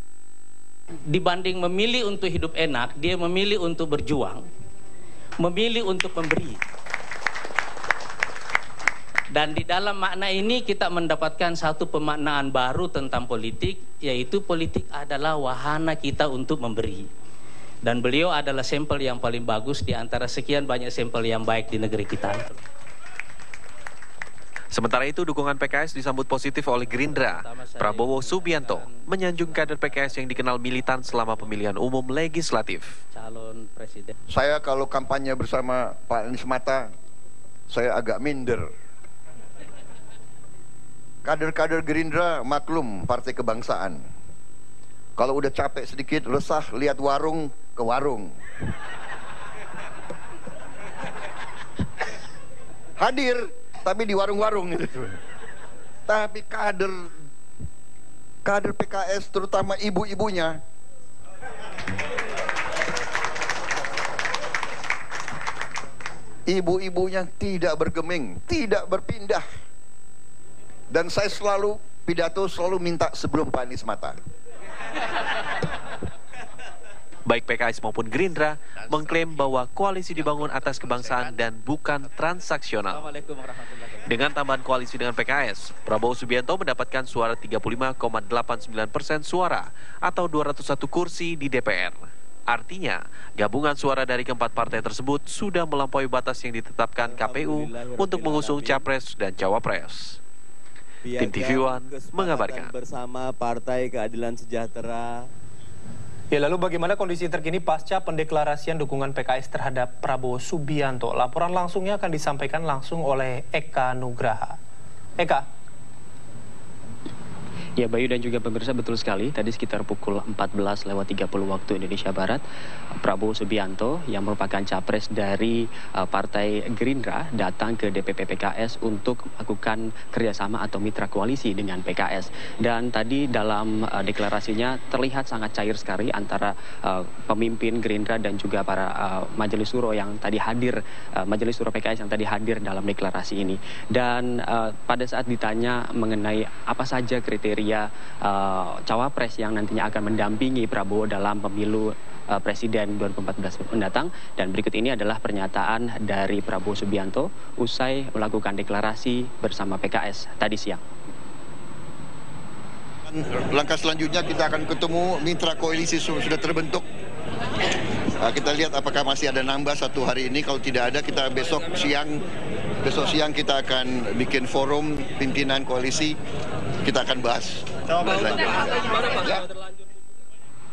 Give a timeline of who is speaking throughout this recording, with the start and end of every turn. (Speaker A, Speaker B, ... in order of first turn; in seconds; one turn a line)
Speaker A: 1.1-4.4
Speaker A: 5.4-6.6
Speaker A: 9.3-17.1
Speaker A: 17.8-22.6
Speaker B: 24.7-33.0
Speaker A: 26.8-31.6
Speaker A: 33.1-34.1
Speaker C: 34.3-36.9
Speaker C: 37.7-38.7
Speaker C: 41.2-44.0
Speaker C: 45.2-48.3
Speaker C: 53.0-55.2
Speaker C: 56.1-57.1
Speaker C: 58.4-60.6
Speaker C: 66.5-69.4
Speaker C: 70.9-74.2
Speaker B: 77.2-83.1
Speaker A: 82.9-84.0
Speaker B: 84.0-100.2
Speaker D: 97.0-98.9
Speaker D: 101.0-105.2
Speaker B: 101.2-102.7
Speaker E: 106.3-114.6
Speaker E: 115.2-115.4
Speaker F: 117.8-122.4
Speaker F: 123.0-160.8
Speaker C: 163.1-166.8
Speaker C: 168.2-172.2
Speaker C: 172.8-176.2
Speaker C: 176.8-179.5